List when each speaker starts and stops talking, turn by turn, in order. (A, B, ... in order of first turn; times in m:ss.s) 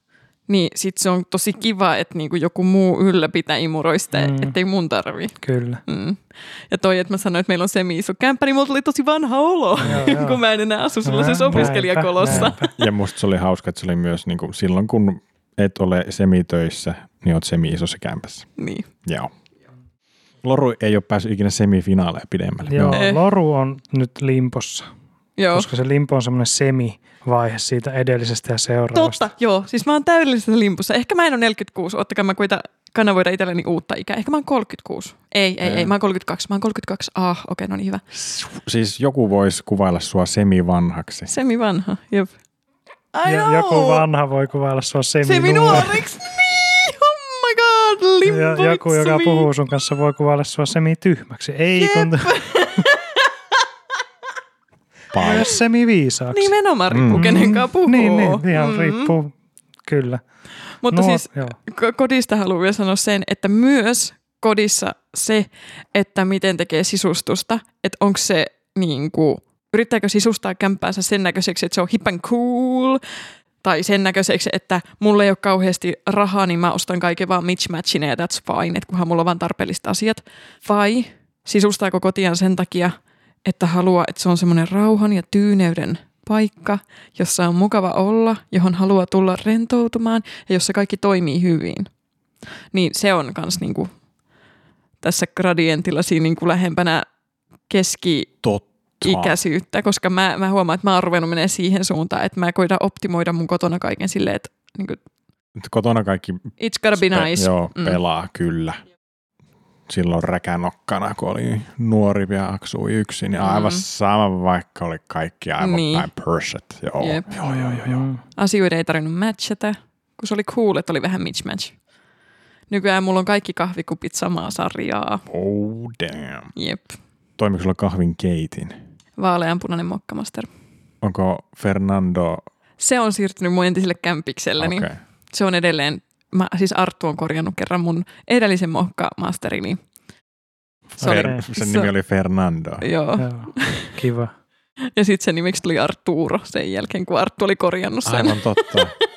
0:00.5-0:05.3 A
0:04.1-0:04.6 B
0:05.4-0:05.8 B
0:05.9-0:12.7 A
0:09.8-0:10.4 B
0:11.0-0:12.7 B
0:12.2-0:18.5 C
0:18.6-0:18.9 A
0:19.0-0:19.3 C
0:20.4-0:23.0 C
0:22.6-0:24.9 B
0:22.9-0:23.2 A
0:25.4-0:25.7 A
0:25.5-0:29.2 B
0:28.9-0:38.0 A
0:35.6-0:35.9 C
0:38.1-0:41.3 C
0:41.3-0:42.3 A
0:43.1-0:44.0 A
0:43.2-0:46.0 B
0:45.2-0:49.5 A
0:48.3-0:52.8 B
0:51.8-0:53.3 A
0:55.1-0:55.6 C
0:55.2-0:56.5 B
0:56.3-0:59.1 A
0:56.9-0:57.4 C
0:57.1-1:00.2 B
1:00.8-1:13.0 A
1:00.9-1:01.6 B
1:13.6-1:31.9 A
1:32.7-1:33.9 A
1:35.0-1:37.0 A
1:37.7-1:38.3 A
1:38.4-1:39.4 C
1:39.0-1:45.0 A
1:45.6-1:48.8 C
1:46.6-1:48.0 A
1:49.9-1:58.0 C
1:53.4-1:53.8 A
1:55.6-1:56.1 A
1:57.0-1:57.3 A
1:57.4-1:58.2 B
1:58.4-2:01.7 A
2:02.7-2:05.2 A
2:05.3-2:06.5 C
2:06.6-2:07.0 A
2:07.4-2:08.8 C
2:09.2-2:10.5 A
2:11.0-2:12.4 C
2:12.8-2:19.8 A
2:14.6-2:15.0 C
2:21.0-2:21.9 A
2:21.0-2:21.4 B
2:21.0-2:22.9 C
2:22.8-2:24.0 A
2:23.2-2:24.3 B
2:25.0-2:28.8 A
2:28.0-2:29.0 C